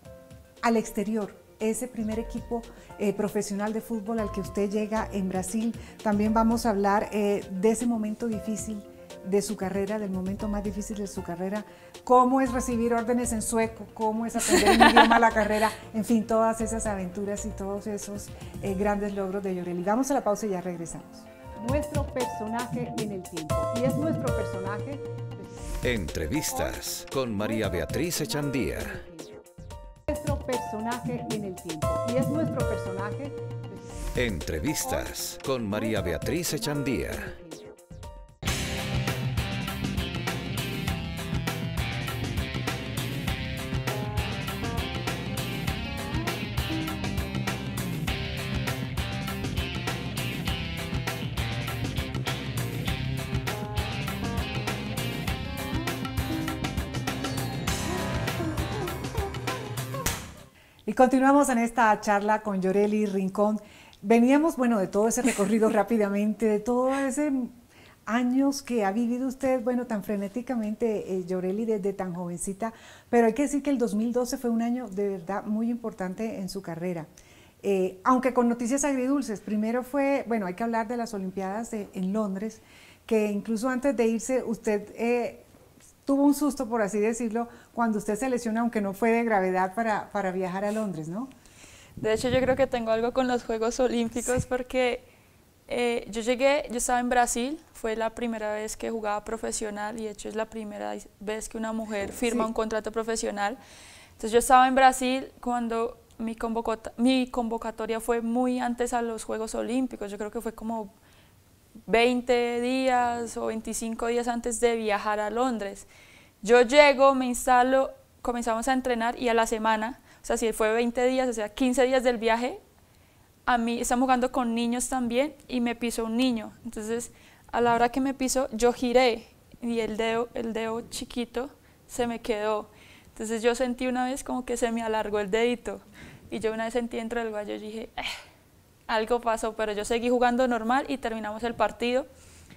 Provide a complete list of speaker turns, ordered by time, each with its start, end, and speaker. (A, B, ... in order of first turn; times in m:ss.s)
0:00.6-0:25.2 A
0:14.5-0:15.3 B
0:25.8-0:29.0 C
0:27.7-0:29.4 A
0:30.1-0:33.6 A
0:34.2-0:37.4 C
0:37.3-0:37.6 A
1:00.9-1:17.1 A
1:17.6-1:25.5 A
1:26.1-1:31.3 A
1:32.0-1:35.1 B
1:35.7-1:43.6 B
1:44.2-1:50.9 B
1:51.9-1:55.9 B
1:56.4-2:02.6 B
2:03.5-2:18.2 B
2:18.9-2:22.1 B